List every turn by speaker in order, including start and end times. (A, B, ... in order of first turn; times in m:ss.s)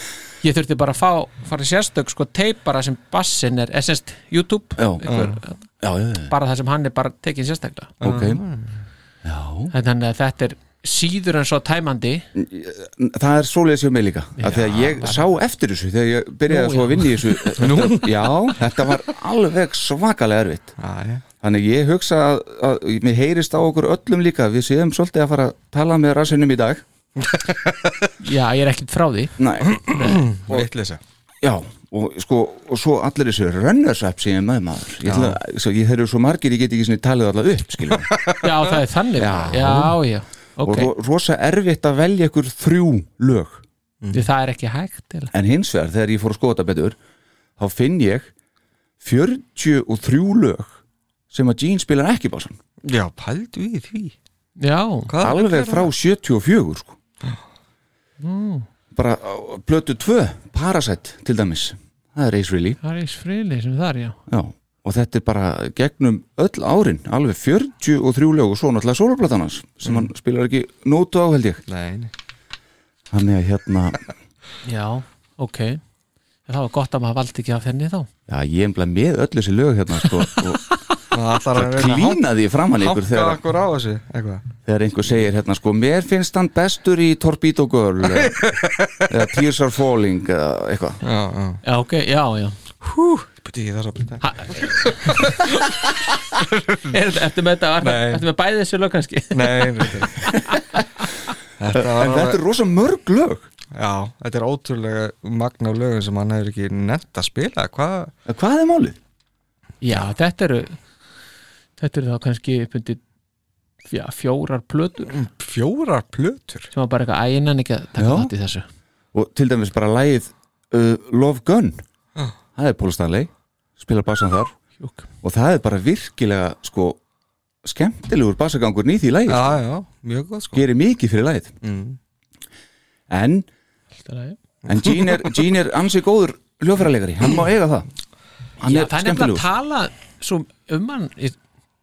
0:00.4-0:05.6 A
0:04.8-0:05.3 B
0:05.1-0:05.4 C
0:05.8-0:06.3 B
0:06.3-0:08.0 A
0:08.0-0:08.4 B
0:08.0-0:08.8 C
0:09.2-0:09.7 B
0:09.7-0:12.2 A
0:12.4-0:20.8 B
0:14.4-0:15.2 A
0:16.5-0:17.8 A
0:17.6-0:18.3 C
0:20.8-0:21.2 C
0:21.4-0:26.8 B
0:27.2-0:28.1 C
0:28.2-0:29.4 A
0:29.4-0:30.7 B
0:29.7-0:31.0 C
0:29.9-0:30.3 A
0:31.4-0:38.1 B
0:35.0-0:35.4 C
0:38.0-0:38.5 C
0:38.4-0:40.9 A
0:39.2-0:40.0 B
0:40.6-0:43.6 B
0:44.0-0:44.3 C
0:44.1-0:45.3 A
0:45.3-0:47.0 B
0:47.6-0:48.3 B
0:49.0-0:50.8 B
0:51.3-0:52.6 B
0:52.8-0:54.1 C
0:54.6-0:55.1 A
0:55.1-0:55.9 C
0:55.2-0:57.0 B
0:58.2-0:58.7 A
0:58.9-1:02.8 B
1:02.8-1:04.2 A
1:04.3-1:11.6 B
1:11.7-1:12.1 C
1:13.1-1:14.0 B
1:14.6-1:15.8 A
1:16.5-1:18.1 A
1:18.3-1:20.6 B
1:20.4-1:20.7 A
1:21.1-1:22.2 C
1:21.6-1:23.4 B
1:22.7-1:24.4 C
1:24.6-1:28.4 B
1:28.1-1:29.2 C
1:29.1-1:31.0 B
1:31.0-1:31.6 C
1:31.6-1:32.6 A
1:32.8-1:37.0 C
1:34.2-1:35.4 A
1:36.9-1:41.1 A
1:37.8-1:38.2 C
1:39.3-1:40.3 C
1:41.6-1:42.4 C
1:41.7-1:43.5 B
1:43.7-1:48.1 C
1:48.3-1:49.0 B
1:49.8-1:50.8 A
1:51.8-1:53.0 A
1:53.9-1:55.2 A
1:55.1-1:56.7 C
1:56.7-1:58.6 A
1:58.0-1:58.3 B
1:59.1-2:01.8 B
2:02.6-2:04.5 B
2:04.8-2:05.1 A
2:05.2-2:07.0 B
2:07.6-2:09.6 B
2:09.3-2:10.6 C
2:10.5-2:11.6 B
2:11.6-2:12.0 C
2:13.1-2:13.5 B
2:14.0-2:14.4 A
2:14.6-2:15.4 C
2:14.6-2:17.9 B
2:18.6-2:19.5 B
2:18.6-2:21.4 A